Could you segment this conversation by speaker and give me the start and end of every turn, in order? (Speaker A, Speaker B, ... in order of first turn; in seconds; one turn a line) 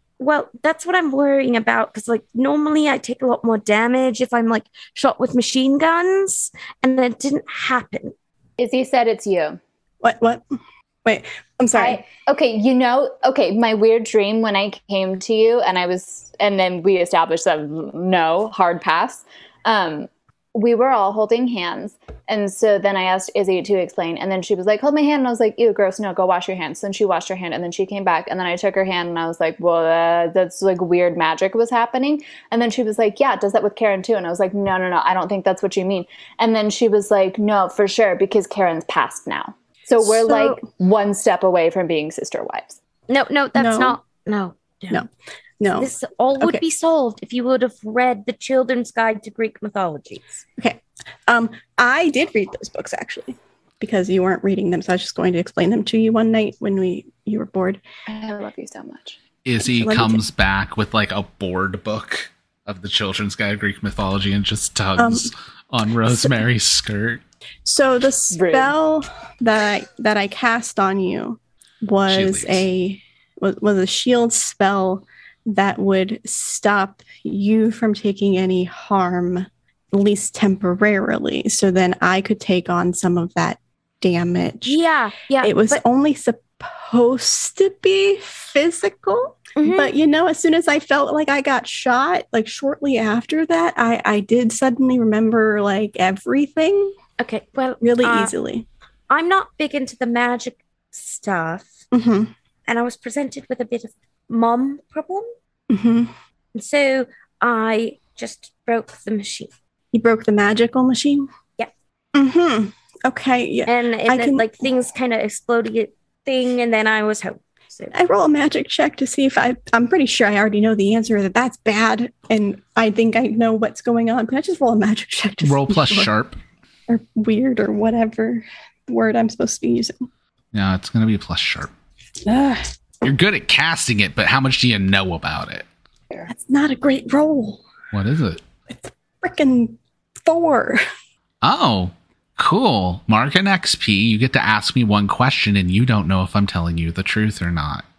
Speaker A: 0.2-8.1
Speaker B: 8.6-9.6
Speaker C: 10.0-10.4
Speaker C: 11.0-12.1
Speaker B: 11.7-42.8
Speaker C: 40.0-40.6
Speaker A: 43.1-45.0
Speaker C: 43.5-44.0
Speaker C: 45.6-46.6
Speaker A: 45.8-50.3
Speaker C: 50.6-57.8
Speaker B: 58.1-59.2
Speaker D: 59.4-67.2
Speaker C: 59.6-60.2
Speaker C: 65.0-65.3
Speaker C: 66.1-66.3
Speaker C: 67.6-84.8
Speaker B: 68.3-68.7
Speaker D: 72.1-72.7
Speaker A: 84.7-85.8
Speaker C: 85.4-96.9
Speaker A: 89.6-89.9
Speaker A: 97.2-98.3
Speaker C: 97.8-98.7
Speaker A: 99.1-101.8
Speaker C: 101.9-102.3
Speaker A: 102.7-105.2
Speaker C: 105.7-106.1
Speaker A: 106.5-109.5
Speaker C: 109.9-111.3
Speaker C: 112.1-114.6
Speaker A: 113.7-117.9
Speaker C: 117.9-126.1
Speaker D: 125.4-126.4
Speaker C: 126.9-130.1
Speaker D: 130.5-131.7
Speaker C: 132.2-132.6
Speaker D: 133.0-135.7
Speaker C: 136.3-137.6
Speaker D: 137.9-138.4
Speaker C: 138.7-140.8
Speaker D: 141.4-147.8